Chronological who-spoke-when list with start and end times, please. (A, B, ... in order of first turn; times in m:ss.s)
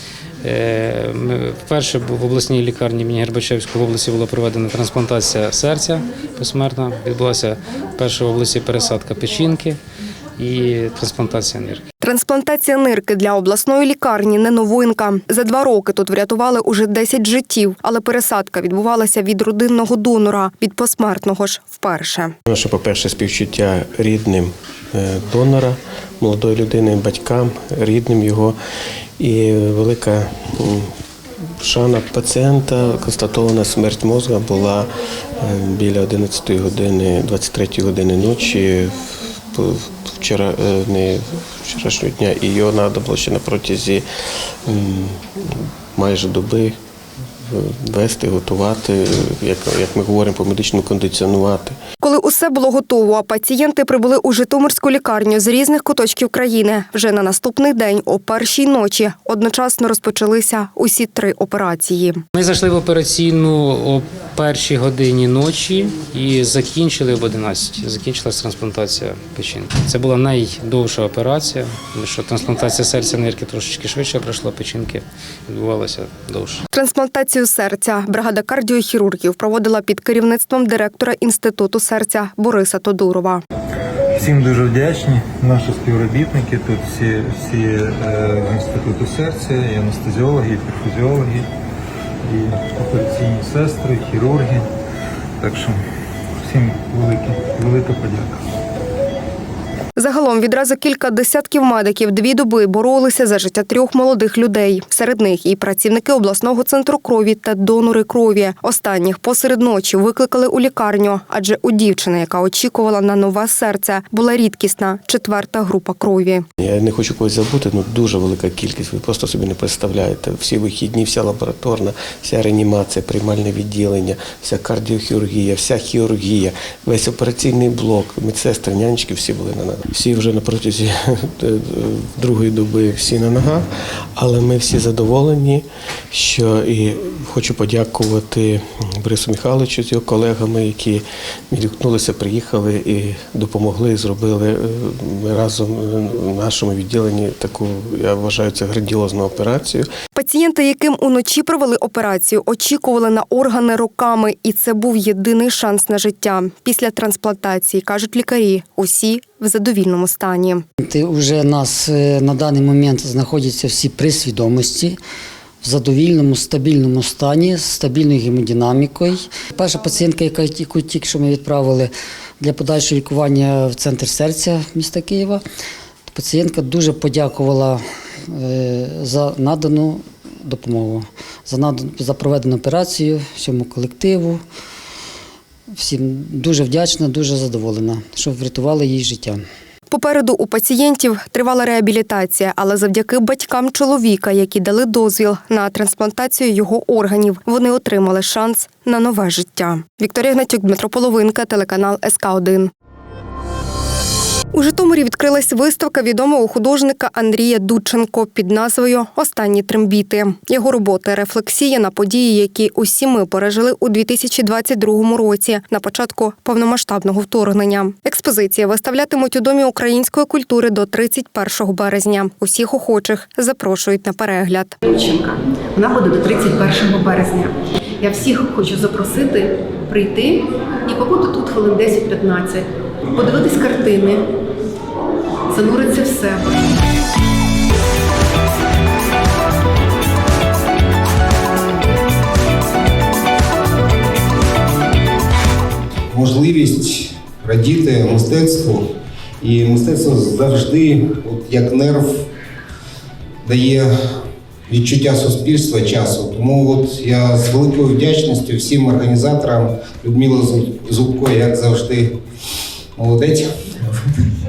0:00.4-0:09.8 A
0:10.4-0:11.8 A
0:12.0-0:22.3 B
0:22.5-0:28.6 C
0:29.2-0:30.9 C
0:31.6-0:44.0 C
0:44.7-0:46.8 C
0:47.4-0:51.8 C
0:52.0-1:02.2 B
1:02.3-1:16.6 A
1:16.7-1:23.4 B
1:24.1-1:31.5 D
1:32.2-1:34.7 D
1:35.4-1:35.8 D
1:36.4-1:38.4 D
1:40.0-1:56.4 B
1:56.6-2:29.9 C
2:30.2-2:40.6 B
2:40.8-2:45.0 E
2:45.6-2:55.4 E
2:56.1-3:04.4 E
3:05.7-3:09.4 E
3:09.9-3:22.7 B
3:24.5-3:44.8 B
3:44.9-3:54.3 F
3:55.5-3:56.5 F
4:06.1-4:08.9 G
4:09.4-4:12.2 G
4:13.4-4:13.9 G
4:14.7-4:22.1 G
4:23.0-4:24.0 G